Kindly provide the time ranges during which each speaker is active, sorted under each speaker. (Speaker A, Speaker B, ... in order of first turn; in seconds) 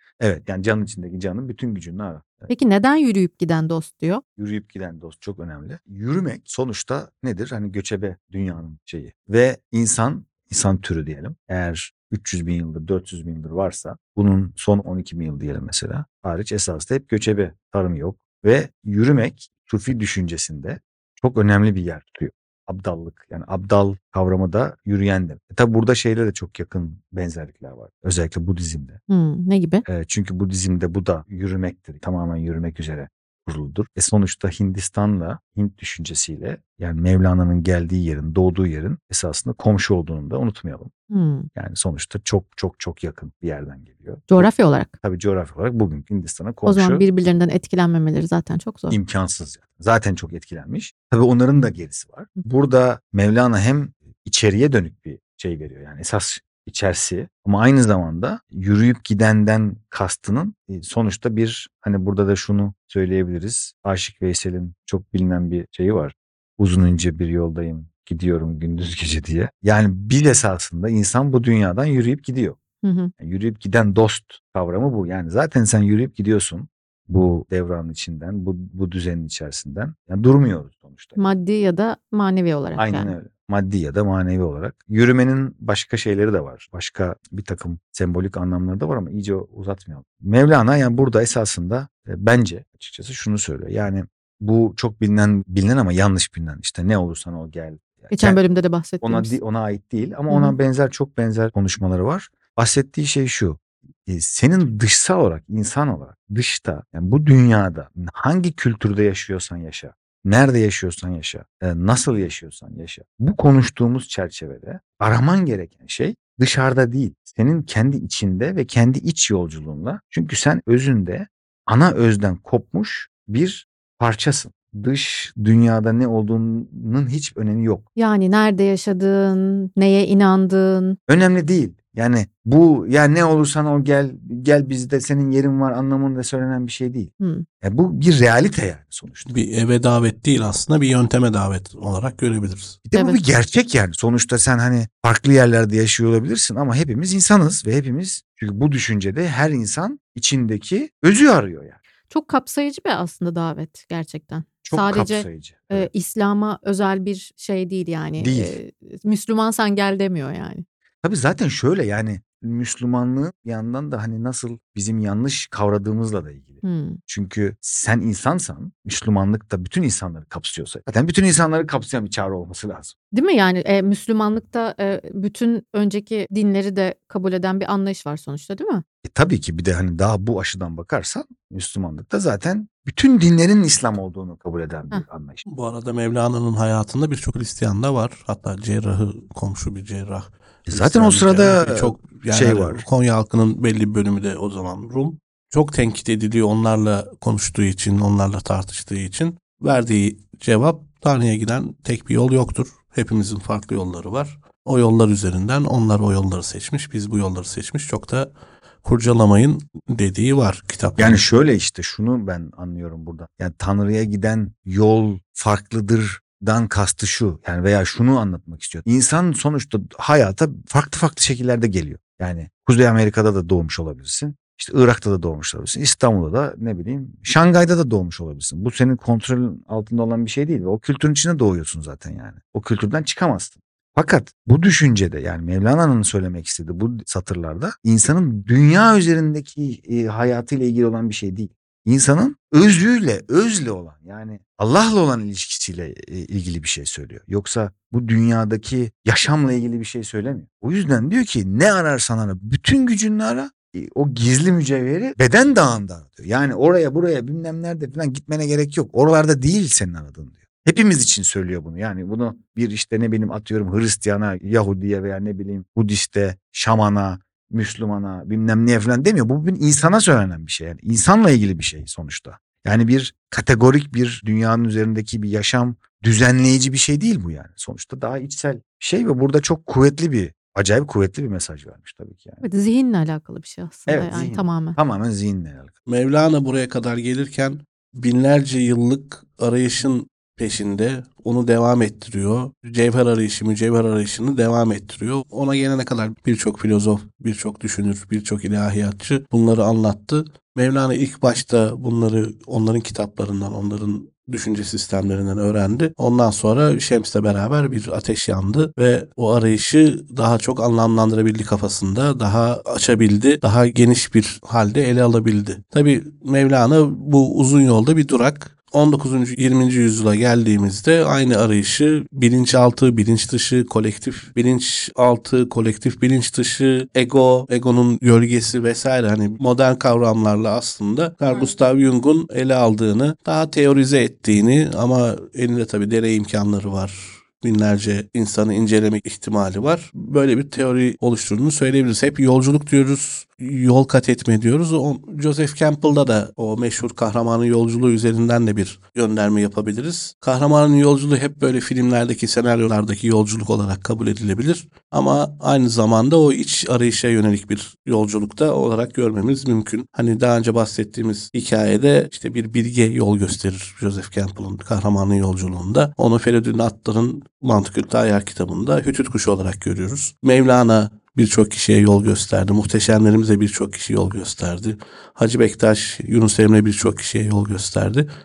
Speaker A: 0.2-2.5, 4.4-29.0, 29.9-40.9, 41.5-44.5, 45.0-47.0, 48.9-72.6, 73.2-81.2, 82.8-98.4, 99.0-127.8, 131.1-137.1, 137.6-139.4, 142.8-151.8, 154.6-155.9, 158.2-158.6, 161.0-172.9, 179.0-185.4, 190.7-192.8, 211.0-282.4, 283.9-285.7
Speaker B: 2.5-4.2, 29.1-29.8, 41.1-41.5, 44.3-44.9, 46.6-49.0, 72.8-73.1, 81.2-83.1, 98.1-99.3, 100.3-100.5, 128.0-131.0, 137.2-137.4, 142.9-143.2, 152.1-160.6, 166.6-167.0, 173.1-178.8, 282.4-284.8
Speaker C: 139.2-142.8, 185.4-208.3, 208.8-211.2, 285.9-378.1